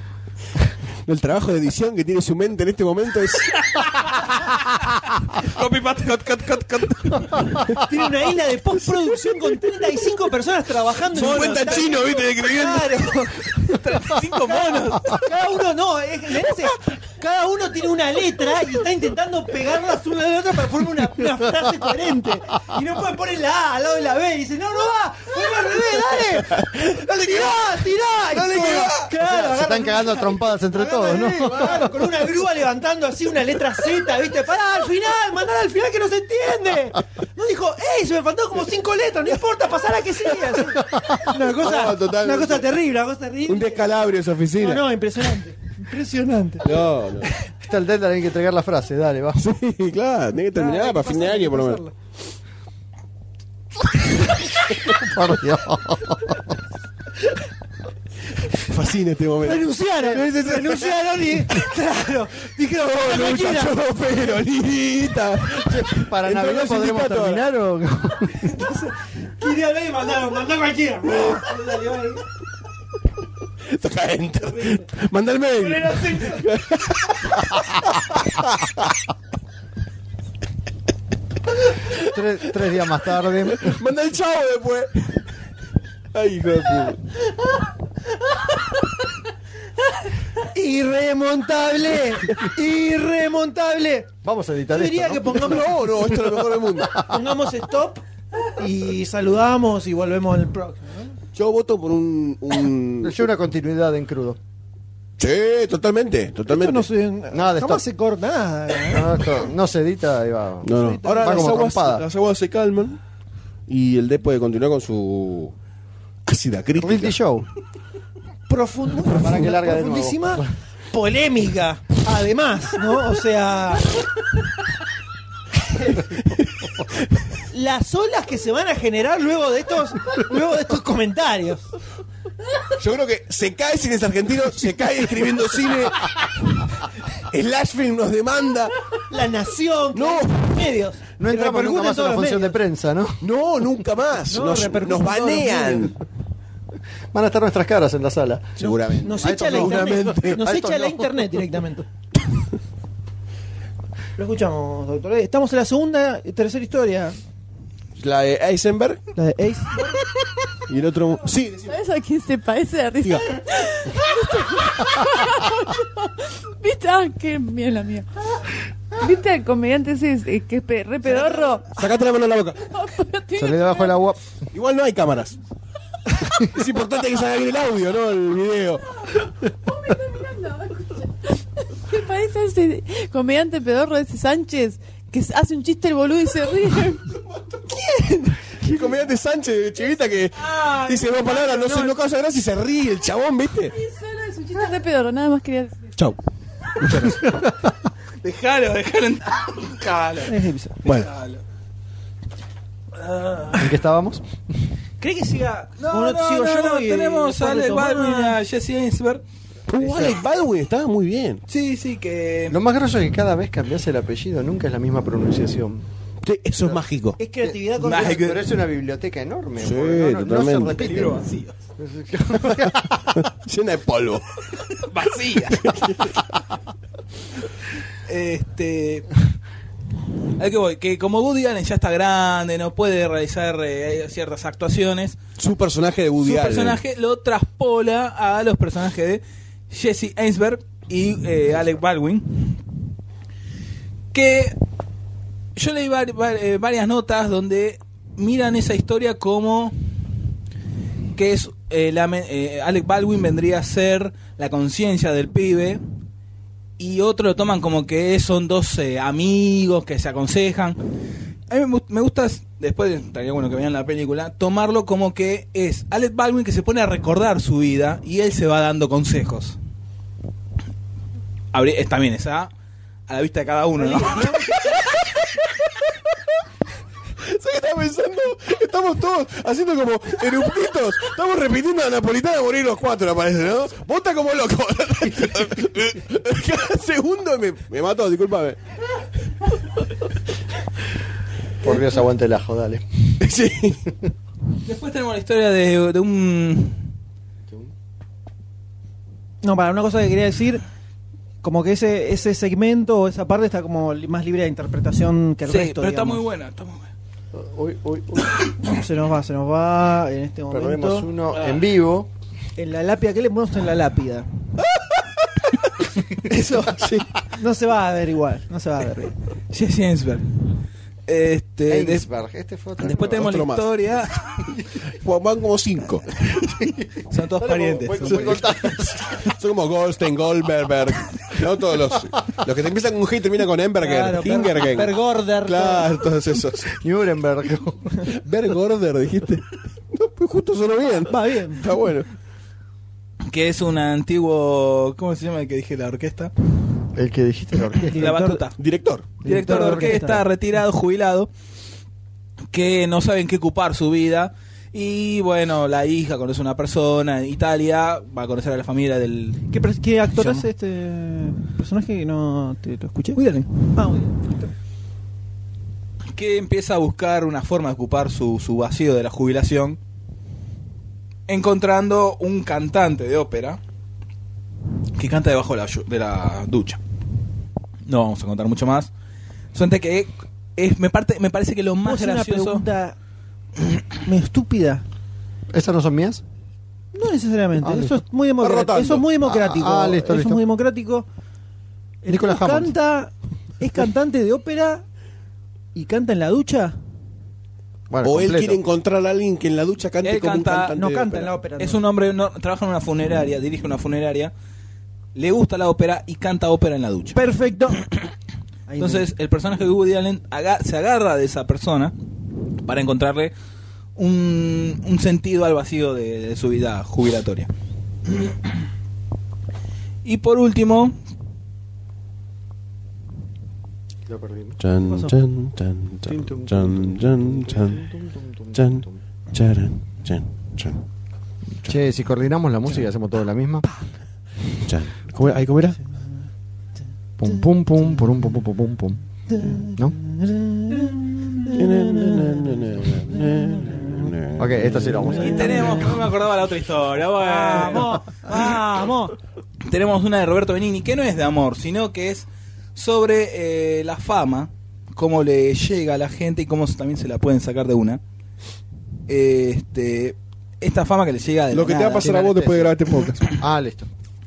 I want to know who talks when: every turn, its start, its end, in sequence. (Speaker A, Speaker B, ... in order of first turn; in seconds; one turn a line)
Speaker A: 1.0-3.5
Speaker B: 3.5-7.6
Speaker C: 7.7-13.8
Speaker A: 11.1-13.2
Speaker B: 11.1-12.1
Speaker B: 13.7-15.2
Speaker C: 14.4-43.9
Speaker A: 26.4-26.6
Speaker A: 27.3-27.5
Speaker A: 28.3-29.1
Speaker D: 29.2-31.9
Speaker A: 41.3-42.7
Speaker A: 43.5-44.9
Speaker C: 44.6-47.3
Speaker A: 46.6-47.3
Speaker D: 47.6-49.4
Speaker A: 49.4-51.8
Speaker C: 50.5-51.9
Speaker D: 54.8-56.5
Speaker A: 58.6-61.5
Speaker C: 59.4-63.8
Speaker A: 62.9-67.4
Speaker D: 65.5-68.4
Speaker C: 68.4-72.2
Speaker A: 73.7-77.7
Speaker C: 75.6-76.5
Speaker D: 82.0-83.8
Speaker A: 83.5-85.1
Speaker A: 86.1-87.0
Speaker C: 90.4-94.1
Speaker D: 94.2-95.6
Speaker C: 94.7-95.8
Speaker A: 95.3-97.1
Speaker C: 96.9-101.2
Speaker A: 101.3-103.2
Speaker D: 103.0-104.4
Speaker A: 105.2-106.9
Speaker C: 106.5-109.2
Speaker D: 107.3-107.8
Speaker D: 108.9-112.0
Speaker A: 110.6-113.0
Speaker C: 110.7-111.6
Speaker A: 113.7-115.5
Speaker A: 116.2-117.2
Speaker D: 116.8-117.5
Speaker C: 118.5-123.9
Speaker D: 119.1-120.5
Speaker C: 127.5-131.7
Speaker A: 132.8-136.6
Speaker A: 137.2-138.7
Speaker C: 139.1-142.6
Speaker A: 139.9-140.6
Speaker D: 141.2-143.2
Speaker A: 143.2-145.9
Speaker C: 144.3-145.9
Speaker D: 147.1-151.3
Speaker A: 148.6-150.4
Speaker C: 149.0-151.8
Speaker C: 154.2-157.2
Speaker A: 158.0-159.0
Speaker C: 159.2-160.0
Speaker A: 160.7-161.8
Speaker E: 161.7-168.4
Speaker A: 163.0-163.3
Speaker E: 169.0-171.8
Speaker A: 171.7-172.6
Speaker E: 172.6-174.0
Speaker D: 173.3-174.2
Speaker A: 174.5-175.4
Speaker A: 176.3-178.8
Speaker E: 179.5-187.2
Speaker A: 188.6-193.7
Speaker E: 190.6-190.9
Speaker C: 191.4-191.8
Speaker E: 193.7-195.9
Speaker B: 196.9-197.4
Speaker B: 198.2-201.4
Speaker C: 200.3-200.8
Speaker A: 200.8-201.1
Speaker B: 203.0-203.7
Speaker D: 203.6-204.2
Speaker C: 205.0-208.4
Speaker B: 205.8-209.2
Speaker A: 209.7-211.4
Speaker D: 209.8-210.2
Speaker B: 211.5-212.6
Speaker D: 212.5-215.9
Speaker A: 216.2-217.2
Speaker C: 217.2-218.2
Speaker D: 217.4-221.2
Speaker B: 217.8-218.4
Speaker A: 219.6-220.8
Speaker B: 220.5-221.5
Speaker D: 221.8-223.2
Speaker A: 223.1-224.2
Speaker B: 224.8-225.8
Speaker A: 225.5-226.2
Speaker B: 228.1-229.1
Speaker B: 230.4-235.2
Speaker A: 235.3-236.8
Speaker B: 236.2-242.6
Speaker B: 244.1-244.6
Speaker B: 245.6-249.7
Speaker B: 251.1-255.8
Speaker B: 256.8-260.8
Speaker B: 261.5-269.6
Speaker B: 271.5-272.5
Speaker B: 273.1-274.4
Speaker C: 273.8-274.5
Speaker A: 274.5-274.9
Speaker A: 277.2-288.6
Speaker D: 291.6-292.8
Speaker A: 293.2-293.8
Speaker B: 294.6-296.9
Speaker C: 299.4-300.6
Speaker C: 301.4-306.2
Speaker B: 305.4-306.9
Speaker D: 307.3-308.4
Speaker C: 308.6-311.1
Speaker D: 310.5-312.1
Speaker C: 312.6-314.3
Speaker A: 314.7-315.0
Speaker C: 316.2-319.1
Speaker A: 316.8-317.0
Speaker B: 319.5-320.3
Speaker B: 321.1-322.1
Speaker D: 321.7-323.3
Speaker B: 322.8-324.5
Speaker A: 322.9-323.6
Speaker A: 325.0-326.1
Speaker D: 326.4-329.3
Speaker B: 327.1-328.5
Speaker A: 328.1-328.4
Speaker A: 329.2-336.7
Speaker C: 333.8-335.9
Speaker D: 336.6-337.9
Speaker A: 338.1-342.1
Speaker C: 341.1-341.6
Speaker B: 343.3-346.3
Speaker D: 346.9-348.0
Speaker C: 347.9-348.4
Speaker B: 347.9-348.6
Speaker A: 348.6-349.1
Speaker D: 349.2-350.0
Speaker B: 349.2-351.3
Speaker C: 349.2-350.2
Speaker B: 352.5-359.4
Speaker C: 359.5-363.2
Speaker B: 360.1-360.4
Speaker B: 363.1-363.7
Speaker C: 363.7-364.5
Speaker B: 366.1-369.8
Speaker B: 371.3-373.6
Speaker B: 374.9-376.8
Speaker B: 377.9-378.9
Speaker B: 379.5-382.6
Speaker C: 381.8-382.9
Speaker C: 384.0-384.8
Speaker D: 385.5-386.2
Speaker C: 386.9-391.1
Speaker D: 387.6-387.9
Speaker A: 388.4-389.1
Speaker D: 389.2-390.4
Speaker C: 392.0-394.8
Speaker D: 392.1-392.7
Speaker C: 395.7-396.8
Speaker D: 397.9-398.6
Speaker A: 398.0-401.3
Speaker B: 400.0-400.8
Speaker C: 400.7-401.8
Speaker B: 401.6-404.3
Speaker B: 405.1-407.2
Speaker C: 407.1-407.8
Speaker C: 408.7-409.1
Speaker B: 408.8-411.9
Speaker B: 412.6-413.3
Speaker B: 413.9-417.5
Speaker B: 418.1-418.4
Speaker B: 420.0-420.9
Speaker D: 424.1-424.6
Speaker A: 424.6-427.9
Speaker C: 424.8-425.2
Speaker D: 426.1-429.0
Speaker A: 428.5-430.8
Speaker D: 431.6-433.7
Speaker A: 434.6-435.8
Speaker D: 437.2-439.0
Speaker C: 439.3-444.0
Speaker A: 441.5-445.2
Speaker D: 444.4-445.9
Speaker B: 445.2-448.6
Speaker C: 447.2-449.1
Speaker B: 449.6-458.0
Speaker B: 459.1-462.3
Speaker A: 461.5-463.4
Speaker D: 462.0-462.7
Speaker D: 463.3-463.9